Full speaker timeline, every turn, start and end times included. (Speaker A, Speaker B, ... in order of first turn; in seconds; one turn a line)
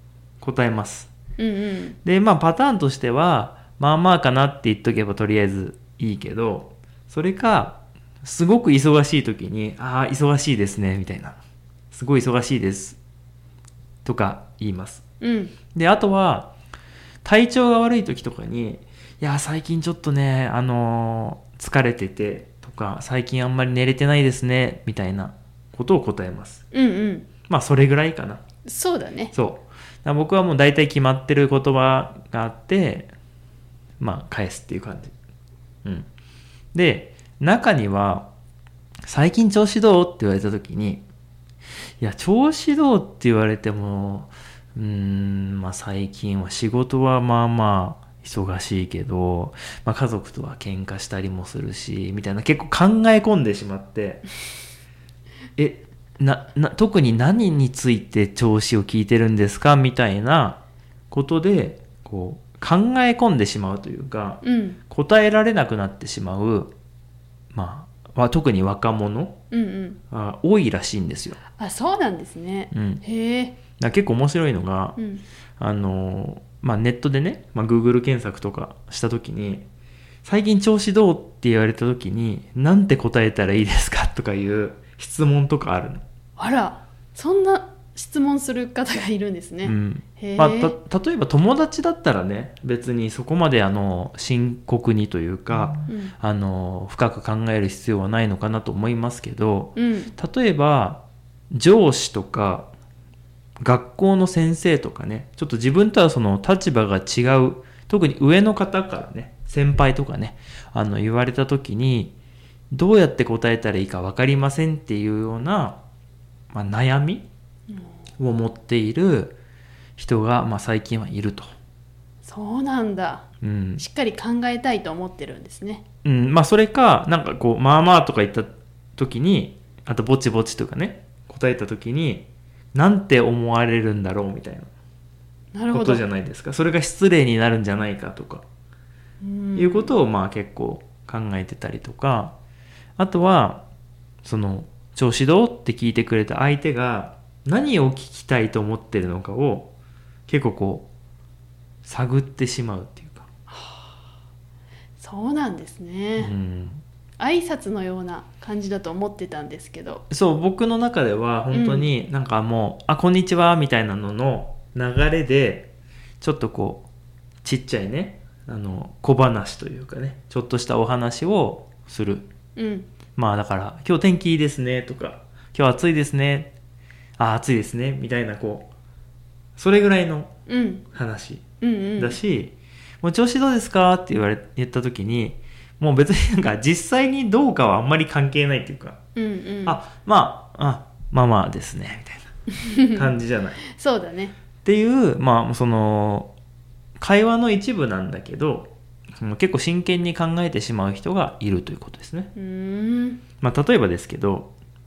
Speaker A: 0.4-1.1
Speaker B: 1.4-2.0
Speaker A: 2.0-11.4
Speaker A: 11.9-13.0
Speaker A: 14.1-15.0
Speaker B: 15.2-15.6
Speaker A: 15.7-16.5
Speaker A: 17.2-26.6
Speaker B: 26.7-27.3
Speaker A: 27.5-28.4
Speaker B: 28.7-29.3
Speaker A: 29.3-33.1
Speaker A: 34.0-35.1
Speaker A: 36.7-38.3
Speaker A: 39.0-41.0
Speaker A: 42.0-54.2
Speaker A: 55.6-66.7
Speaker B: 64.4-64.8
Speaker A: 67.5-69.4
Speaker B: 69.5-70.0
Speaker A: 70.1-71.4
Speaker B: 71.5-73.6
Speaker A: 72.7-73.0
Speaker A: 73.8-75.0
Speaker B: 75.0-75.2
Speaker A: 75.6-79.7
Speaker A: 80.2-86.0
Speaker B: 86.4-90.8
Speaker A: 89.6-102.7
Speaker B: 95.9-96.1
Speaker B: 99.8-100.2
Speaker A: 103.6-112.2
Speaker A: 112.7-115.8
Speaker A: 116.5-117.3
Speaker A: 118.2-119.4
Speaker A: 120.0-121.5
Speaker B: 122.2-123.3
Speaker A: 123.4-123.8
Speaker B: 123.8-125.8
Speaker A: 126.0-134.7
Speaker B: 135.5-136.0
Speaker A: 135.7-138.5
Speaker B: 139.2-139.9
Speaker A: 139.6-142.3
Speaker A: 143.0-143.7
Speaker A: 144.2-149.7
Speaker A: 150.3-150.9
Speaker A: 151.8-153.3
Speaker B: 153.5-154.0
Speaker B: 155.0-156.3
Speaker A: 156.2-156.8
Speaker B: 157.2-160.0
Speaker A: 160.1-166.9
Speaker B: 161.5-161.9
Speaker A: 167.4-172.3
Speaker B: 172.6-172.9
Speaker A: 173.2-176.5
Speaker A: 177.2-178.7
Speaker A: 179.6-180.3
Speaker B: 180.5-180.8
Speaker A: 180.9-181.4
Speaker B: 181.6-182.2
Speaker A: 182.0-189.0
Speaker B: 189.2-189.8
Speaker A: 189.7-192.3
Speaker B: 192.5-193.1
Speaker A: 192.9-193.7
Speaker B: 193.7-194.3
Speaker A: 194.6-196.3
Speaker A: 197.0-202.3
Speaker B: 202.3-203.2
Speaker A: 203.4-204.5